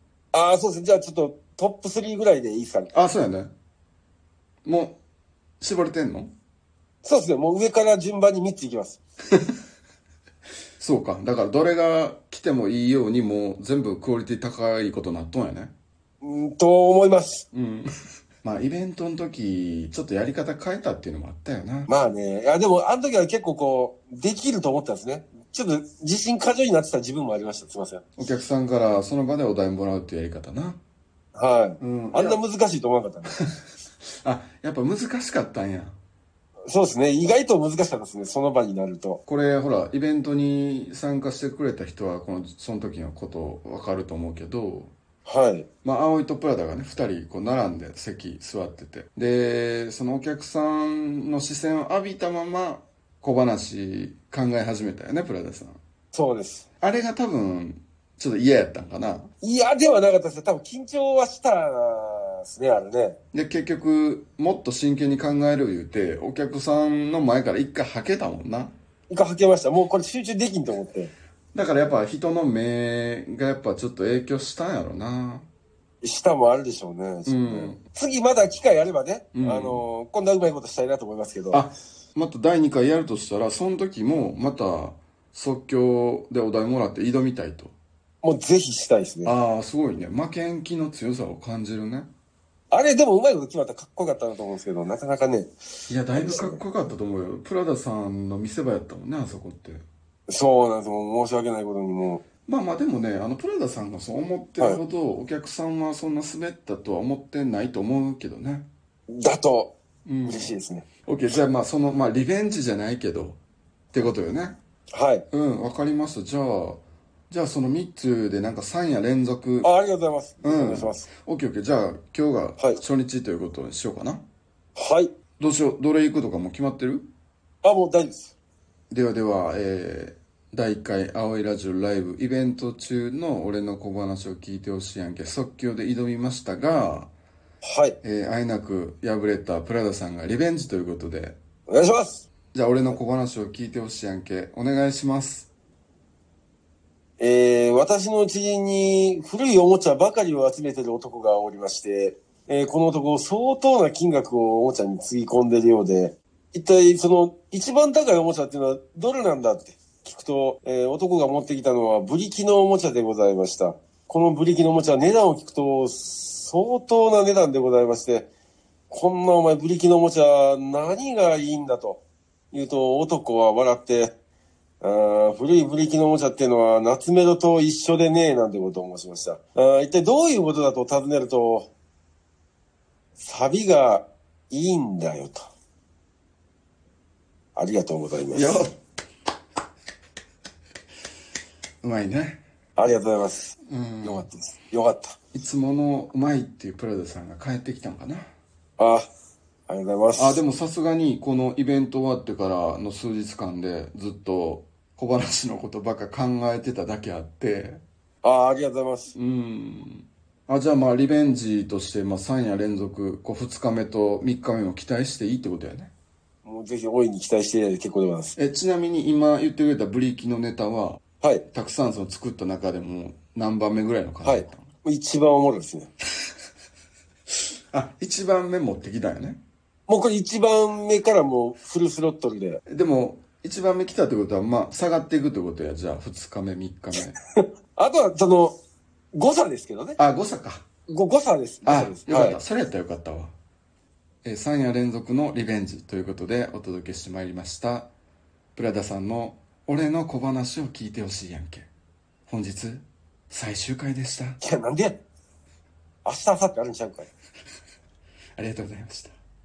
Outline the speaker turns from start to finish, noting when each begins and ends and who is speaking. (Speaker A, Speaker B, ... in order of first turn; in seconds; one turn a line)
Speaker A: 0.3-2.9
Speaker B: 2.9-3.5
Speaker B: 4.6-5.0
Speaker B: 5.6-6.3
Speaker A: 7.0-9.0
Speaker B: 10.8-15.7
Speaker A: 16.2-17.4
Speaker B: 17.5-17.9
Speaker B: 18.4-21.9
Speaker A: 21.9-28.1
Speaker B: 28.2-30.8
Speaker A: 31.3-33.3
Speaker B: 31.8-32.4
Speaker B: 34.2-36.0
Speaker A: 36.7-39.2
Speaker B: 39.2-44.9
Speaker A: 45.2-45.6
Speaker B: 45.8-55.8
Speaker A: 56.1-56.6
Speaker B: 56.8-59.3
Speaker A: 59.4-63.2
Speaker B: 63.3-68.7
Speaker A: 69.1-71.1
Speaker B: 71.5-75.5
Speaker A: 76.0-81.7
Speaker B: 77.2-77.8
Speaker B: 79.3-79.8
Speaker B: 81.5-87.7
Speaker A: 88.2-89.3
Speaker B: 89.2-92.1
Speaker A: 92.7-95.5
Speaker B: 95.9-99.8
Speaker A: 96.1-96.6
Speaker A: 100.3-102.2
Speaker B: 102.5-108.7
Speaker A: 109.1-109.7
Speaker B: 110.0-113.4
Speaker A: 110.2-110.8
Speaker B: 113.9-114.6
Speaker A: 114.9-115.2
Speaker B: 115.3-119.7
Speaker A: 119.6-121.1
Speaker B: 120.4-124.2
Speaker A: 124.8-125.1
Speaker B: 125.4-127.1
Speaker A: 127.6-128.3
Speaker B: 128.9-137.1
Speaker A: 137.6-138.0
Speaker B: 138.0-141.4
Speaker A: 141.7-142.3
Speaker B: 142.5-145.5
Speaker A: 147.2-168.3
Speaker A: 168.9-172.0
Speaker A: 172.5-174.1
Speaker A: 174.8-181.7
Speaker A: 183.2-185.4
Speaker A: 187.6-188.6
Speaker B: 188.3-188.7
Speaker B: 191.8-192.4
Speaker A: 192.8-195.2
Speaker B: 193.6-194.3
Speaker B: 195.3-198.3
Speaker A: 198.8-199.1
Speaker A: 199.7-200.4
Speaker B: 200.2-207.8
Speaker A: 208.2-209.1
Speaker B: 209.1-215.9
Speaker A: 216.4-218.3
Speaker B: 218.3-224.7
Speaker A: 224.2-225.9
Speaker B: 227.7-229.4
Speaker A: 229.9-232.6
Speaker B: 232.7-237.2
Speaker A: 237.3-238.6
Speaker A: 239.1-240.0
Speaker B: 240.0-240.6
Speaker A: 240.9-242.4
Speaker B: 241.6-243.3
Speaker B: 244.2-247.9
Speaker B: 248.5-251.7
Speaker B: 252.3-254.4
Speaker A: 254.4-255.0
Speaker A: 256.0-257.1
Speaker B: 258.4-259.1